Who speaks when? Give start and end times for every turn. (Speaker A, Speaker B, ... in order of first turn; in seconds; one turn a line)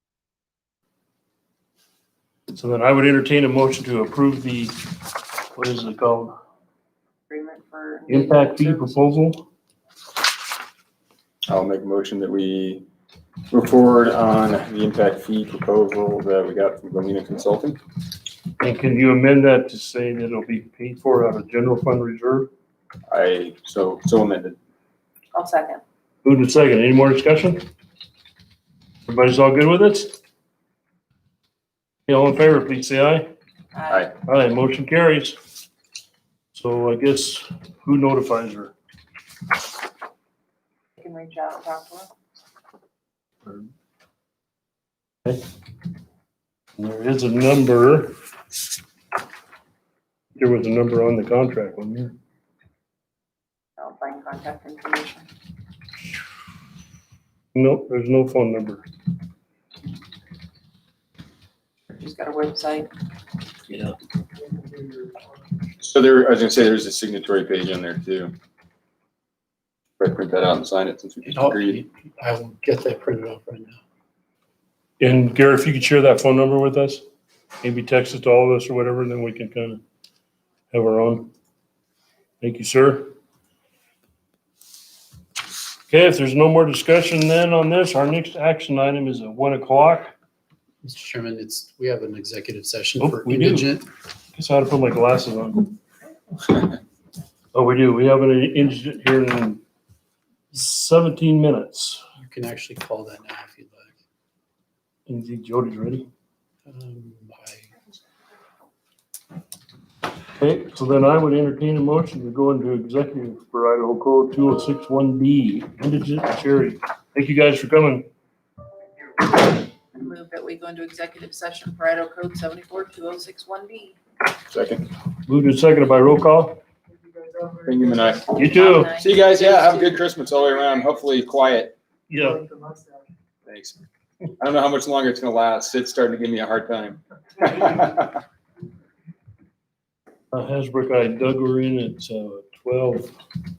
Speaker A: 2.5-4.8
Speaker A: 5.5-6.3
Speaker B: 7.3-9.0
Speaker A: 8.1-9.4
Speaker C: 11.5-12.8
Speaker C: 13.5-17.8
Speaker A: 18.6-22.5
Speaker C: 23.1-24.6
Speaker B: 25.3-25.8
Speaker A: 26.2-27.6
Speaker A: 29.1-30.1
Speaker A: 32.1-33.3
Speaker B: 33.7-34.1
Speaker A: 34.2-35.4
Speaker A: 36.5-38.7
Speaker B: 41.0-42.1
Speaker A: 46.8-48.1
Speaker A: 50.4-52.1
Speaker B: 53.8-55.3
Speaker A: 57.5-58.8
Speaker B: 61.9-62.9
Speaker C: 65.8-68.3
Speaker C: 70.0-71.8
Speaker D: 71.3-73.8
Speaker A: 75.0-77.0
Speaker A: 77.6-79.8
Speaker A: 80.7-81.3
Speaker A: 82.4-83.1
Speaker A: 85.9-90.1
Speaker D: 90.8-93.8
Speaker A: 93.0-93.8
Speaker A: 94.3-95.7
Speaker A: 97.5-99.6
Speaker A: 100.5-102.0
Speaker D: 102.2-103.9
Speaker A: 105.1-106.1
Speaker D: 106.7-107.7
Speaker A: 110.3-118.0
Speaker B: 119.9-124.0
Speaker C: 124.5-124.8
Speaker A: 125.3-126.6
Speaker C: 127.6-131.8
Speaker A: 128.3-128.9
Speaker B: 128.4-130.8
Speaker A: 132.1-132.4
Speaker C: 133.4-133.8
Speaker C: 134.4-138.2
Speaker A: 140.3-143.1